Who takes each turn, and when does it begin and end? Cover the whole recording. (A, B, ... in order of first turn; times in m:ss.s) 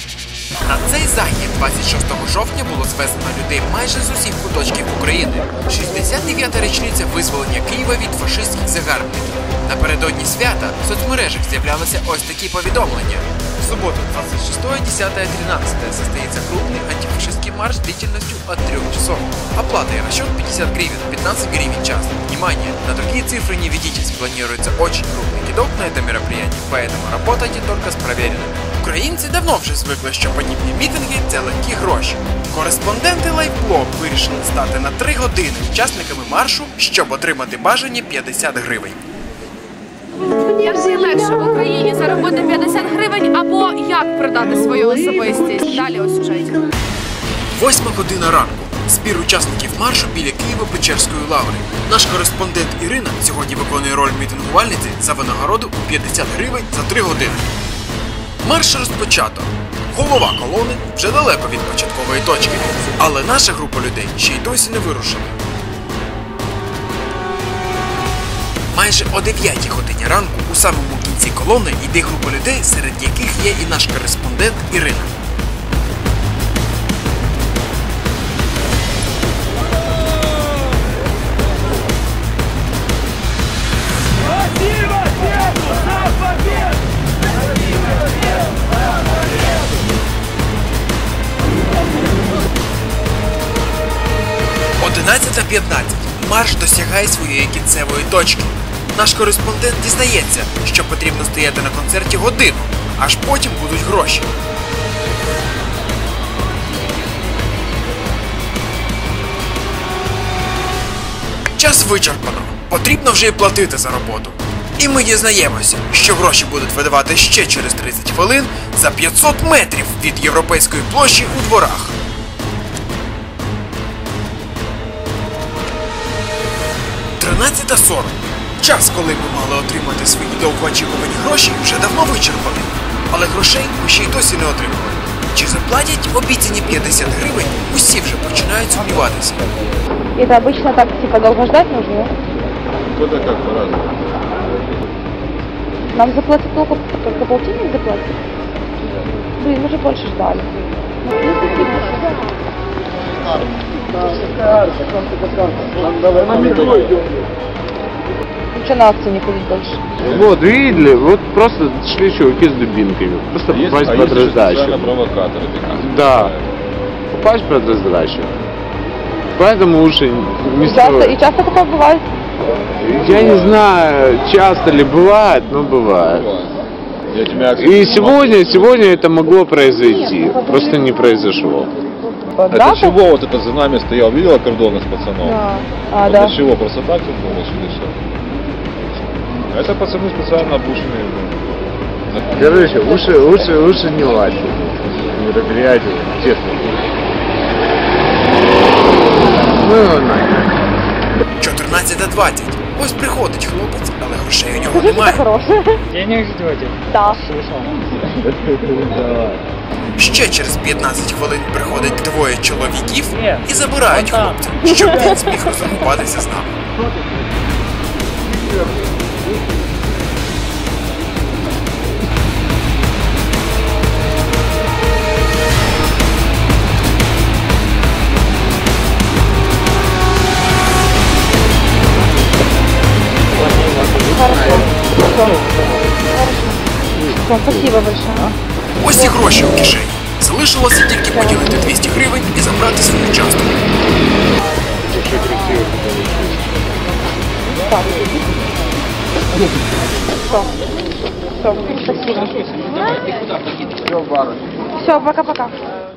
0:00.6-0:39.0 A
0:40.4-0:46.7 B
0:47.5-0:57.4 A
0:58.4-1:05.4 A
1:08.7-1:15.1 A
1:34.8-1:44.3 A
1:51.5-2:01.9 A
2:07.2-2:19.4 A
2:20.2-2:22.1 C
2:22.9-2:23.9 D
2:25.9-2:28.2 C
2:29.4-2:32.1 C
2:35.9-2:36.9 D
2:38.5-2:39.8 C
2:40.0-2:45.0 E
2:43.5-2:46.4 D
2:45.8-2:46.3 E
2:47.1-2:48.4 E
2:49.4-2:51.2 E
2:50.6-2:52.1 C
2:52.8-2:56.3 E
2:53.3-2:53.6 D
2:56.2-2:56.5 D
2:57.1-2:59.0 D
2:57.6-3:01.7 E
3:02.4-3:03.0 C
3:02.5-3:05.4 D
3:05.2-3:06.4 C
3:06.0-3:08.0 D
3:09.5-3:11.4 D
3:12.1-3:12.6 D
3:12.3-3:16.9 E
3:19.6-3:20.5 E
3:21.4-3:25.2 A
3:24.7-3:25.8 C
3:25.9-3:27.7 F
3:26.9-3:27.3 C
3:28.6-3:29.2 E
3:30.0-3:36.6 A
3:33.2-3:34.4 F
3:53.5-3:54.6 E
3:54.1-3:55.4 C
3:56.0-3:56.7 C
3:57.0-3:57.8 E
3:57.2-3:58.3 C
3:58.8-4:03.7 A
4:01.1-4:01.5 C
4:04.8-4:06.4 E
4:07.6-4:08.4 C
4:11.4-4:12.3 C
4:14.8-4:15.5 C